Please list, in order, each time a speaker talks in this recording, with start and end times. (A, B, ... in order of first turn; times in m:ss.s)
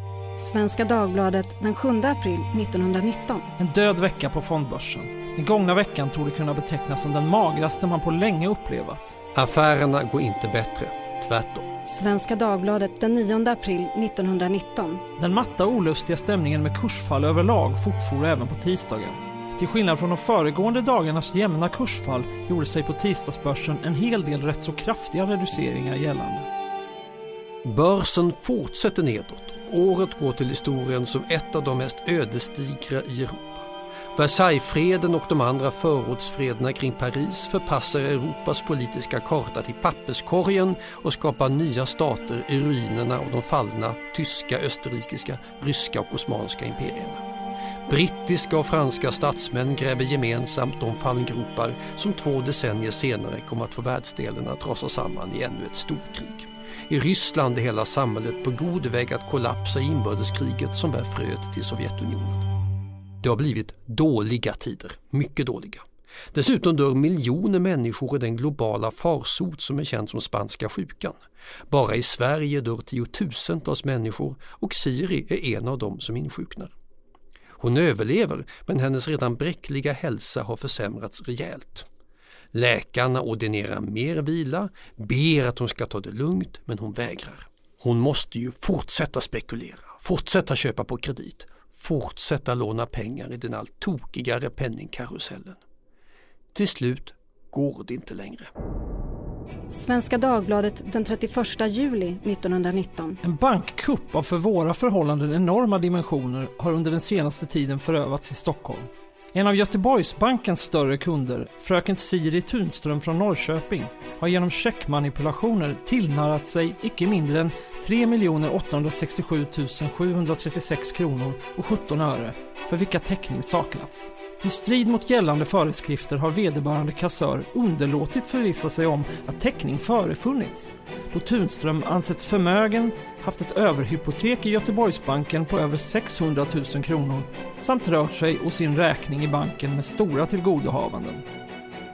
0:00.4-0:03.5 A
0:03.6-0:09.1 B
0:09.3-0:11.7 C
0:11.8-0:15.0 A
0:15.2-0:26.5 B
0:27.6-0:47.2 C
0:47.9-1:02.4 C
1:03.2-1:11.2 C
1:11.7-1:16.7 C
1:17.6-1:21.9 C
1:22.5-1:35.6 C
1:36.5-1:38.5 C
1:39.7-1:43.2 A
1:43.2-2:21.2 B